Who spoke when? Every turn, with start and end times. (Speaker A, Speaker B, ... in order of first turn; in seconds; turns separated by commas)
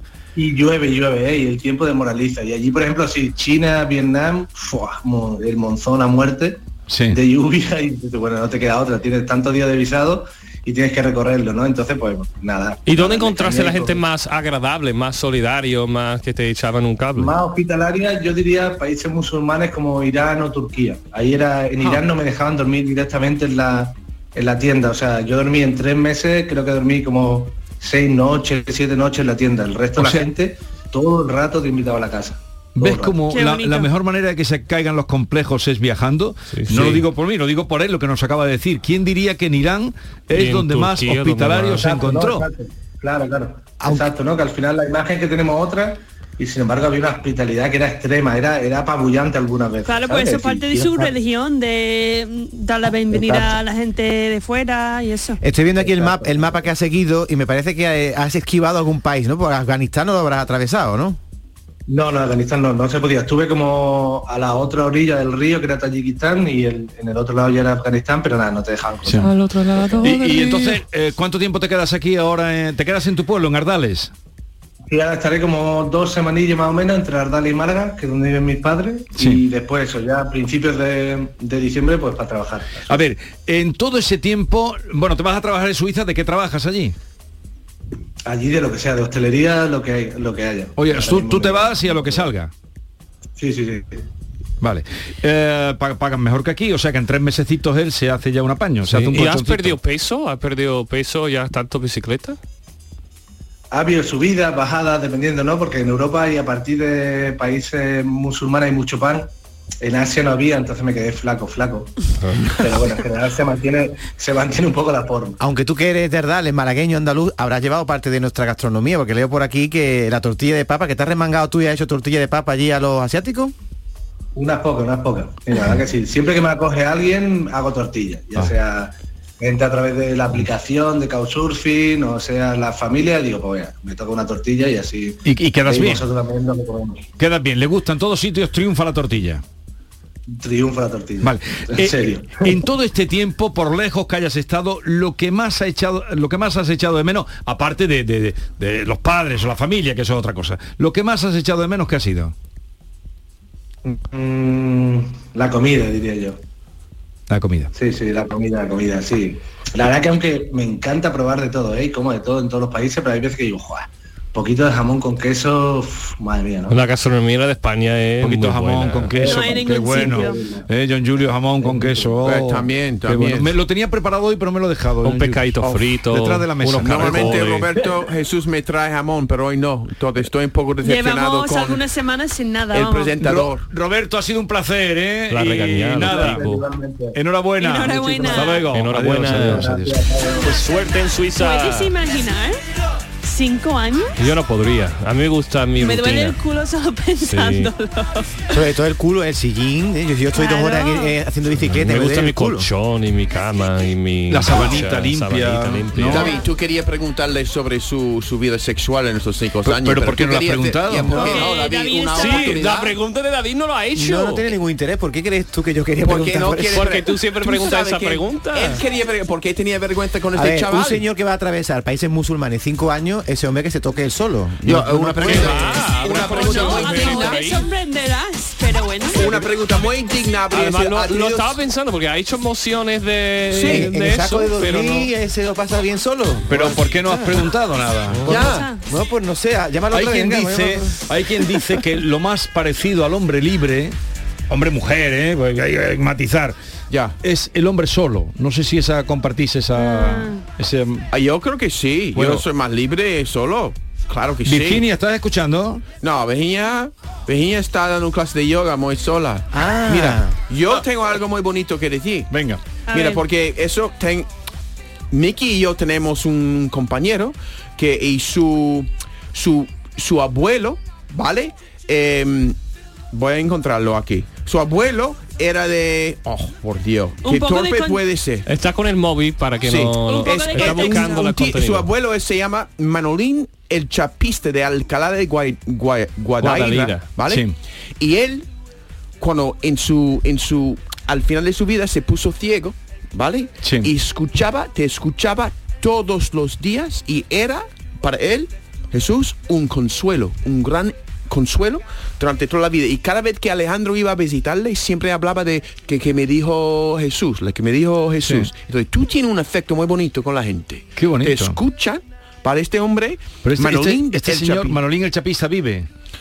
Speaker A: 0.4-14.0, Speaker B: 6.9-7.2, Speaker C: 12.9-17.3, Speaker A: 17.1-33.2, Speaker B: 30.0-30.3, Speaker B: 32.8-42.5, Speaker D: 33.3-33.9, Speaker C: 36.5-37.0, Speaker C: 40.3-41.9, Speaker A: 41.8-51.1, Speaker D: 49.8-55.4, Speaker A: 53.1-53.5, Speaker E: 55.4-61.2, Speaker A: 55.8-56.7, Speaker A: 61.9-69.2, Speaker B: 69.0-69.3, Speaker C: 69.2-70.8, Speaker B: 70.0-74.1, Speaker A: 74.9-83.0, Speaker B: 79.2-79.4, Speaker B: 82.9-86.9, Speaker A: 88.3-92.3, Speaker B: 90.8-92.5, Speaker A: 93.4-94.0, Speaker B: 94.6-99.8, Speaker C: 98.9-102.4, Speaker A: 103.7-109.3, Speaker A: 109.8-111.9, Speaker C: 112.2-112.5, Speaker A: 112.6-115.4, Speaker E: 115.4-123.5, Speaker A: 124.3-137.1, Speaker B: 135.2-136.1, Speaker B: 137.2-139.4, Speaker A: 140.3-142.6, Speaker B: 141.2-152.3, Speaker A: 153.8-156.4, Speaker B: 157.3-157.7, Speaker A: 157.8-166.8, Speaker C: 166.7-169.3, Speaker B: 168.2-177.5, Speaker D: 169.1-170.4, Speaker A: 169.2-170.7, Speaker A: 171.6-172.1, Speaker F: 172.2-173.5, Speaker C: 175.0-177.7, Speaker F: 176.7-181.8, Speaker D: 180.8-183.2, Speaker F: 182.7-183.7, Speaker B: 183.3-186.6, Speaker C: 185.3-186.6, Speaker A: 186.0-187.2, Speaker B: 187.1-190.0, Speaker D: 187.6-188.7, Speaker A: 188.0-188.3, Speaker C: 188.5-189.8, Speaker A: 189.3-190.5, Speaker C: 190.4-191.9, Speaker D: 191.3-192.6, Speaker D: 193.2-194.1, Speaker C: 194.2-196.4, Speaker D: 195.8-198.4, Speaker C: 197.2-197.7, Speaker E: 198.5-202.7, Speaker D: 200.3-201.2, Speaker C: 201.7-206.3, Speaker B: 204.3-206.3, Speaker F: 206.1-212.9, Speaker D: 206.2-206.4, Speaker B: 209.6-211.3, Speaker D: 211.1-212.6, Speaker C: 212.1-214.5, Speaker E: 213.9-216.9, Speaker F: 216.0-221.0, Speaker C: 216.7-218.8, Speaker E: 220.3-225.7, Speaker F: 224.6-227.4, Speaker C: 225.2-227.7, Speaker D: 226.1-229.4, Speaker F: 229.1-231.5, Speaker C: 230.5-235.1, Speaker F: 233.5-233.9, Speaker E: 233.6-237.4, Speaker B: 236.5-238.4, Speaker C: 238.1-238.4, Speaker F: 238.3-238.7, Speaker D: 238.3-238.8, Speaker E: 238.9-241.0, Speaker B: 239.9-244.0, Speaker B: 244.5-246.6, Speaker F: 246.9-247.2, Speaker B: 247.2-251.1, Speaker D: 249.7-250.4, Speaker F: 251.1-254.8, Speaker B: 252.1-252.4, Speaker B: 254.4-255.8, Speaker F: 256.0-262.3, Speaker E: 259.5-260.4, Speaker B: 262.3-262.6, Speaker D: 262.9-263.2, Speaker F: 262.9-264.3, Speaker F: 265.1-272.6, Speaker F: 273.1-278.5, Speaker D: 277.2-278.0, Speaker C: 278.4-281.9, Speaker F: 279.6-287.5, Speaker D: 280.0-281.4, Speaker C: 286.4-287.1, Speaker B: 287.3-287.5, Speaker F: 288.0-288.5, Speaker F: 289.2-314.8, Speaker B: 293.6-293.9, Speaker B: 308.2-308.5, Speaker B: 310.9-311.6, Speaker B: 313.4-315.9